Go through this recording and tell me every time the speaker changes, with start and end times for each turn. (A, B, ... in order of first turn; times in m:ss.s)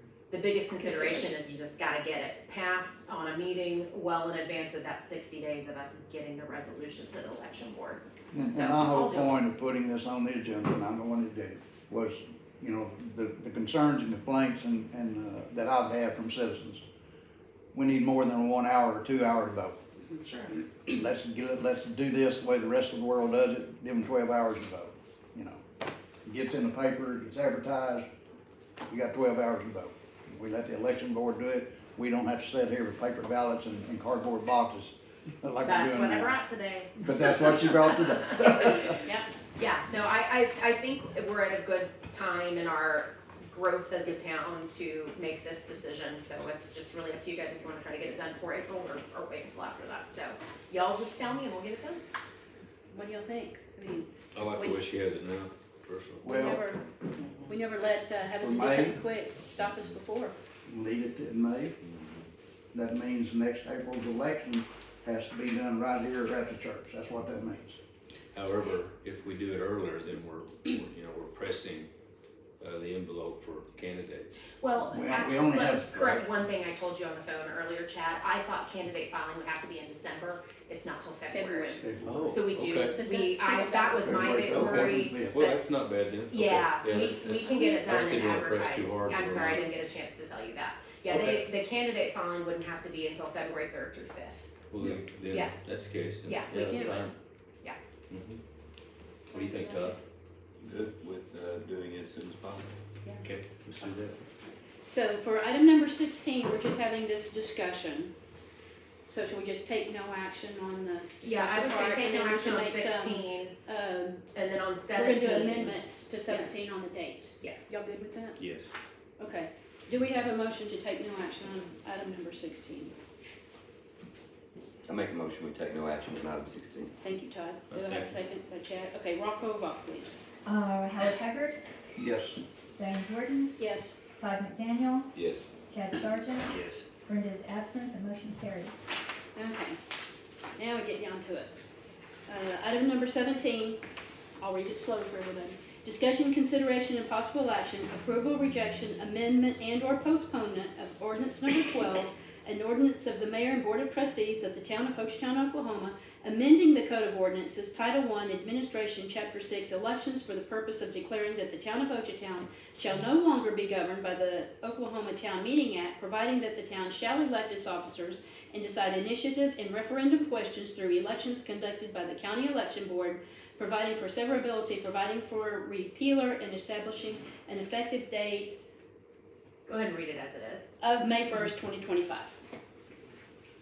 0:00.3-0:09.4 A
0:00.8-0:01.3 B
0:08.3-0:16.8 C
0:17.7-0:19.8 C
0:20.2-0:20.6 A
0:20.7-0:25.6 C
0:26.2-0:28.0 C
0:28.9-0:36.4 C
0:35.6-0:39.0 A
0:37.0-0:39.0 C
0:39.0-0:39.3 B
0:39.6-0:52.0 A
0:52.9-0:54.9 B
0:54.3-0:56.2 D
0:56.2-0:56.7 C
0:56.2-0:56.8 B
0:57.5-1:00.4 B
0:58.4-0:59.0 C
1:00.7-1:01.8 C
1:01.8-1:02.3 D
1:02.7-1:07.8 C
1:08.3-1:11.9 D
1:12.6-1:14.4 D
1:14.6-1:25.7 A
1:14.8-1:15.9 C
1:16.0-1:16.3 D
1:21.3-1:21.8 B
1:21.7-1:22.4 C
1:22.0-1:23.0 D
1:22.8-1:24.6 B
1:24.0-1:25.4 C
1:24.5-1:29.7 D
1:26.3-1:34.6 A
1:31.1-1:31.4 D
1:34.7-1:37.1 D
1:36.2-1:37.1 A
1:36.5-1:37.0 B
1:38.1-1:38.4 D
1:39.3-1:40.0 D
1:39.3-1:40.0 B
1:40.6-1:42.7 E
1:43.2-1:44.3 D
1:44.4-1:48.2 B
1:49.1-1:54.2 B
1:51.2-1:53.6 A
1:54.3-1:56.7 A
1:54.9-1:58.4 B
1:57.4-1:57.7 A
1:58.4-1:58.7 D
1:59.2-2:02.9 B
2:04.8-2:06.9 E
2:07.0-2:10.2 B
2:07.7-2:08.2 D
2:10.4-2:11.6 F
2:12.0-2:12.4 C
2:12.8-2:13.6 F
2:13.6-2:14.0 B
2:14.2-2:15.1 F
2:15.1-2:15.5 E
2:15.7-2:18.9 F
2:16.4-2:16.8 D
2:19.4-2:19.8 B
2:20.6-2:21.5 B
2:22.3-2:23.8 B
2:24.4-2:58.6 B
2:59.7-3:00.7 A
3:00.8-3:02.4 B